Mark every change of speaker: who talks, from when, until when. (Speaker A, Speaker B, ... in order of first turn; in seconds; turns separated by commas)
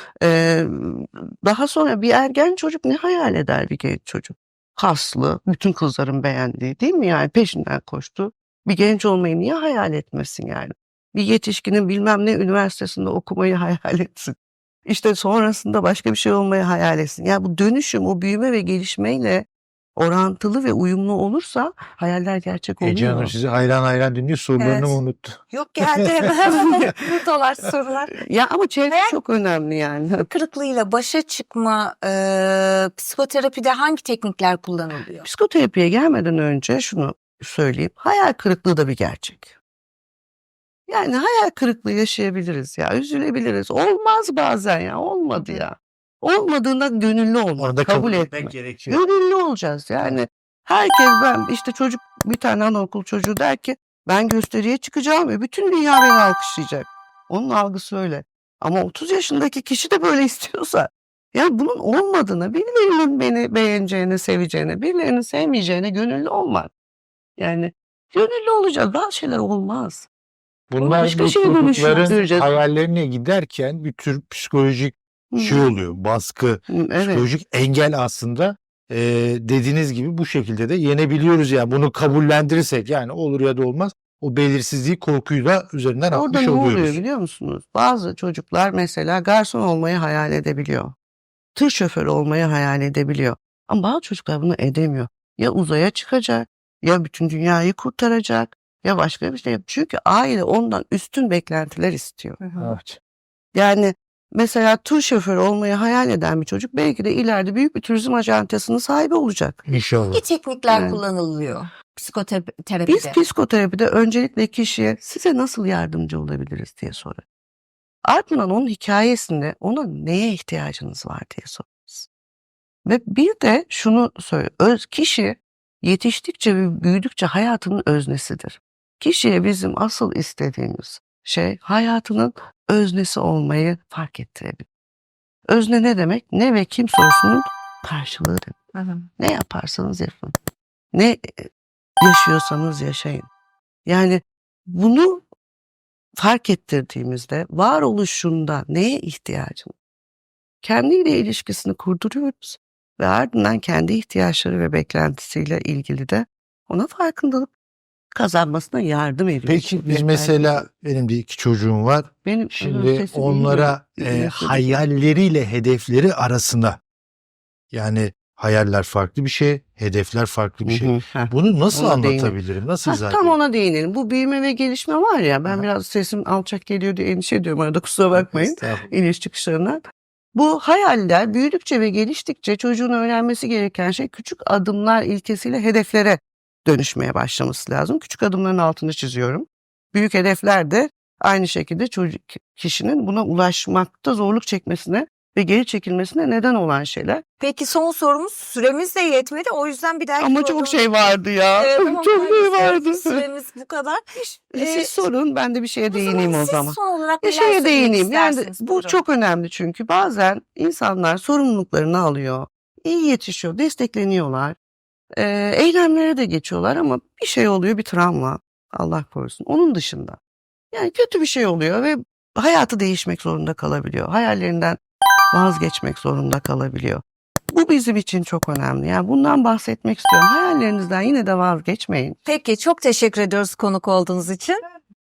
Speaker A: 0.2-23.3, Speaker B: 22.8-26.9, Speaker C: 24.6-25.0, Speaker C: 25.5-28.2, Speaker A: 28.2-30.2, Speaker C: 28.9-29.1, Speaker C: 30.2-35.2, Speaker A: 35.2-39.5, Speaker A: 40.9-66.7, Speaker C: 45.3-45.6, Speaker B: 47.6-49.0, Speaker A: 67.4-70.1, Speaker B: 70.7-87.0, Speaker A: 70.8-72.5, Speaker C: 71.8-72.1, Speaker A: 75.3-75.7, Speaker A: 76.7-77.3, Speaker A: 86.1-90.9, Speaker A: 91.5-102.4, Speaker C: 102.4-102.7, Speaker B: 102.6-103.0, Speaker A: 103.5-109.6, Speaker B: 109.7-110.2, Speaker C: 110.1-113.2, Speaker A: 110.7-111.0, Speaker A: 112.9-117.2, Speaker A: 118.0-122.1, Speaker A: 122.8-134.6, Speaker A: 135.5-138.6, Speaker C: 138.8-139.0, Speaker A: 139.2-140.3, Speaker A: 140.9-141.5, Speaker A: 142.0-143.3, Speaker A: 143.8-145.2, Speaker A: 146.2-149.7, Speaker A: 150.6-157.5, Speaker A: 158.1-160.7, Speaker B: 159.4-166.8, Speaker A: 162.2-164.9, Speaker B: 167.7-173.3, Speaker A: 170.6-179.8, Speaker B: 178.1-178.8, Speaker A: 180.3-197.2, Speaker C: 197.4-205.0, Speaker A: 200.2-203.2, Speaker A: 204.5-214.6, Speaker C: 205.9-209.0, Speaker A: 215.1-220.2, Speaker A: 220.7-224.8, Speaker A: 225.3-232.2, Speaker C: 232.2-234.6